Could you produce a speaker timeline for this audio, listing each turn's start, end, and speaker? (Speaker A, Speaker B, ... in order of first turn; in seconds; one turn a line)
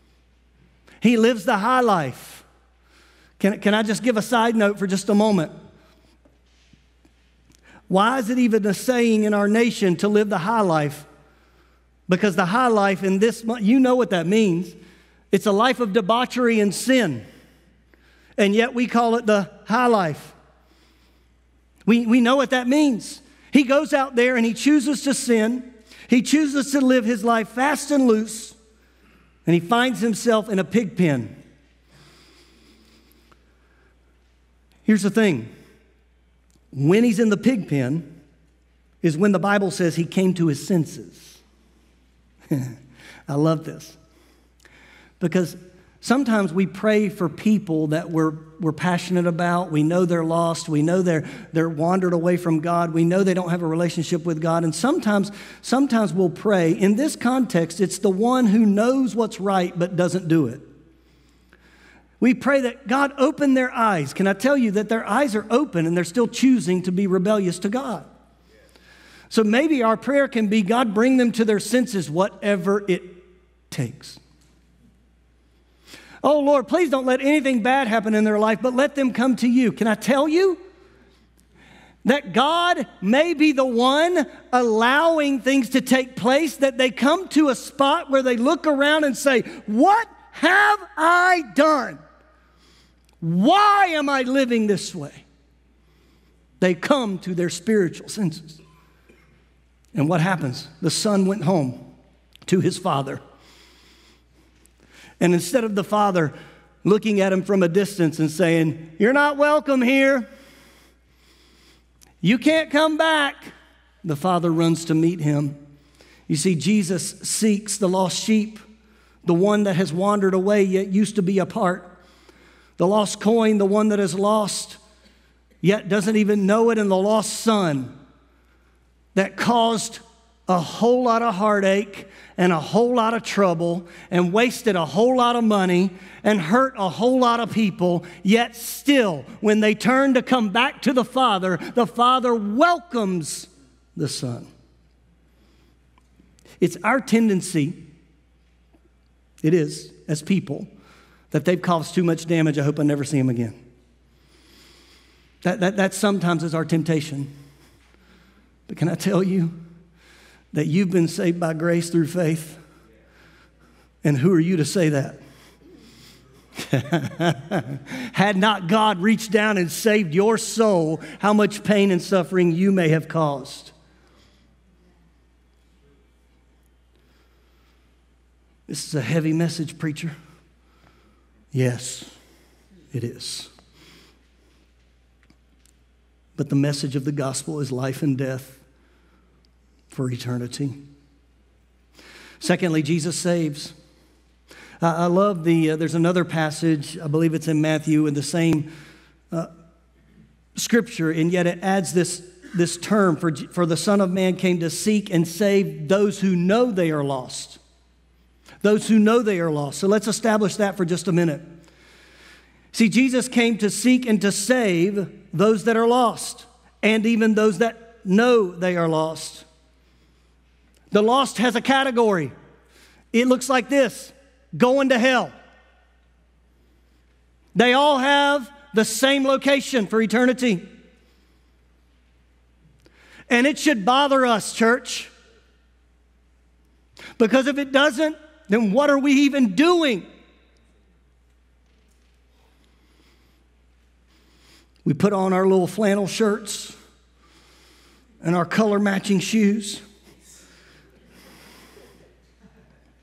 Speaker A: 1.0-2.4
Speaker A: 3.4-5.5
Speaker A: 7.9-11.1
Speaker A: 12.1-14.8
Speaker A: 15.3-17.2
Speaker A: 18.4-20.4
Speaker A: 21.9-28.6
Speaker A: 29.4-31.3
Speaker A: 34.9-35.5
Speaker A: 36.7-38.1
Speaker A: 39.0-41.4
Speaker A: 42.5-42.8
Speaker A: 43.3-44.0
Speaker A: 45.2-60.6
Speaker A: 62.2-68.1
Speaker A: 69.3-74.2
Speaker A: 76.2-80.6
Speaker A: 82.0-92.0
Speaker A: 93.2-95.2
Speaker A: 96.6-98.6
Speaker A: 99.9-101.8
Speaker A: 102.5-103.2
Speaker A: 105.2-110.2
Speaker A: 112.2-113.5
Speaker A: 114.0-115.5
Speaker A: 116.3-118.6
Speaker A: 119.2-122.0
Speaker A: 122.8-124.8
Speaker A: 125.6-127.9
Speaker A: 129.1-144.5
Speaker A: 146.6-147.8
Speaker A: 149.4-150.7
Speaker A: 151.3-153.6
Speaker A: 155.4-157.3
Speaker A: 158.7-159.6
Speaker A: 160.5-162.6
Speaker A: 164.0-165.2
Speaker A: 166.6-173.7
Speaker A: 178.7-180.1
Speaker A: 181.5-182.1
Speaker A: 182.9-183.5
Speaker A: 186.4-188.6
Speaker A: 189.9-190.8
Speaker A: 192.4-193.7
Speaker A: 194.8-198.7
Speaker A: 200.6-207.6
Speaker A: 208.6-211.4
Speaker A: 212.7-219.4
Speaker A: 220.9-222.3
Speaker A: 223.1-225.3
Speaker A: 227.5-230.7
Speaker A: 233.3-235.1
Speaker A: 237.2-240.0
Speaker A: 244.8-246.8
Speaker A: 248.2-249.8